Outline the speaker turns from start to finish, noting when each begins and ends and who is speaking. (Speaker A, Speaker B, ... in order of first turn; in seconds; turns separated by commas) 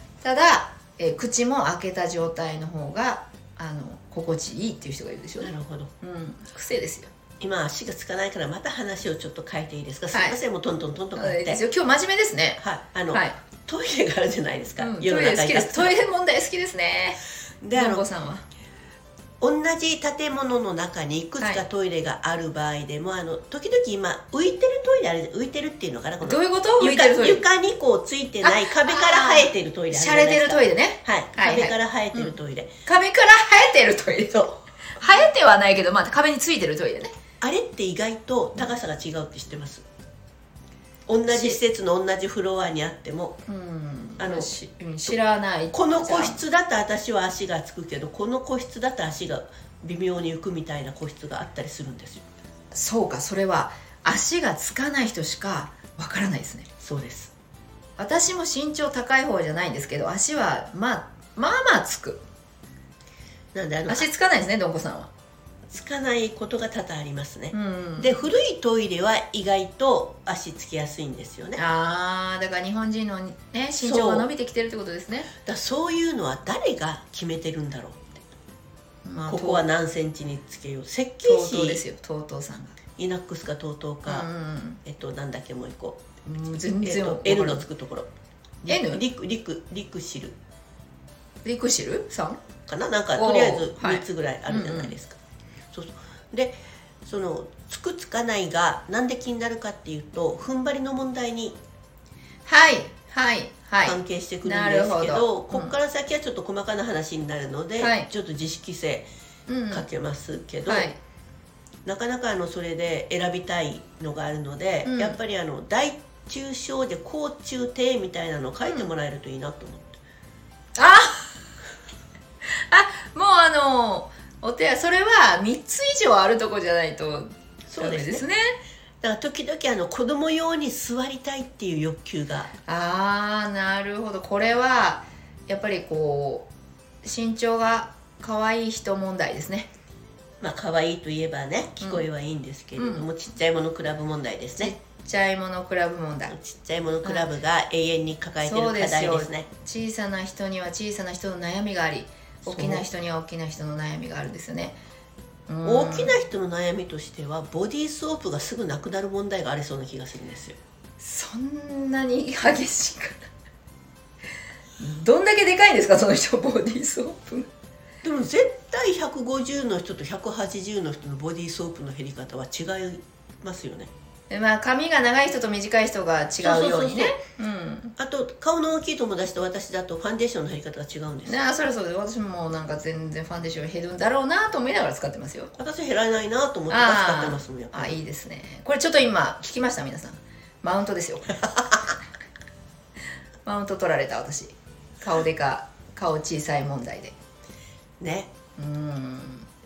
Speaker A: 0.2-7.1, Speaker B: 5.4-5.9, Speaker B: 7.4-11.6, Speaker A: 10.1-10.4, Speaker A: 11.1-13.4, Speaker B: 12.6-16.0, Speaker A: 14.8-17.2, Speaker B: 17.6-18.0, Speaker A: 17.7-18.4, Speaker B: 19.4-32.7, Speaker A: 26.2-27.4, Speaker A: 28.4-37.1, Speaker B: 37.4-39.8, Speaker B: 41.1-43.4, Speaker A: 41.3-41.6, Speaker A: 43.5-46.4, Speaker B: 44.2-44.5, Speaker B: 45.7-52.2, Speaker A: 52.7-56.7, Speaker B: 56.8-57.3, Speaker A: 58.0-62.2, Speaker B: 63.5-64.1, Speaker A: 63.9-65.1, Speaker B: 65.7-71.6, Speaker A: 67.5-68.2, Speaker A: 71.6-75.3, Speaker B: 73.7-74.3, Speaker B: 75.3-78.1, Speaker A: 79.0-79.7, Speaker B: 79.2-81.8, Speaker A: 81.2-82.8, Speaker B: 83.0-84.3, Speaker A: 84.0-84.8, Speaker B: 84.8-86.0, Speaker A: 86.2-87.6, Speaker B: 86.8-88.1, Speaker B: 88.6-90.3, Speaker A: 88.7-89.0, Speaker A: 91.4-92.4, Speaker B: 92.7-95.2, Speaker A: 93.2-95.0, Speaker B: 95.7-101.6, Speaker A: 102.5-105.7, Speaker B: 103.8-109.1, Speaker A: 107.8-108.1, Speaker A: 109.5-109.8, Speaker B: 109.7-110.9, Speaker A: 110.7-111.0, Speaker B: 111.8-120.0, Speaker A: 114.8-115.2, Speaker A: 120.8-121.3, Speaker A: 122.5-128.6, Speaker B: 127.7-128.2, Speaker B: 129.0-132.5, Speaker A: 132.7-136.5, Speaker A: 137.0-139.7, Speaker B: 140.4-144.7, Speaker A: 141.8-142.1, Speaker A: 142.8-143.1, Speaker A: 144.6-146.3, Speaker B: 146.3-149.5, Speaker A: 148.4-154.8, Speaker B: 152.4-152.8, Speaker A: 155.5-156.1, Speaker B: 155.6-160.6, Speaker A: 161.0-163.2, Speaker A: 164.8-167.5, Speaker B: 168.0-173.9, Speaker A: 174.3-177.9, Speaker B: 176.4-177.2, Speaker B: 178.0-181.4, Speaker A: 181.2-185.5, Speaker B: 185.6-188.0, Speaker A: 186.7-191.5, Speaker A: 193.4-197.1, Speaker B: 198.0-198.3, Speaker A: 198.6-199.5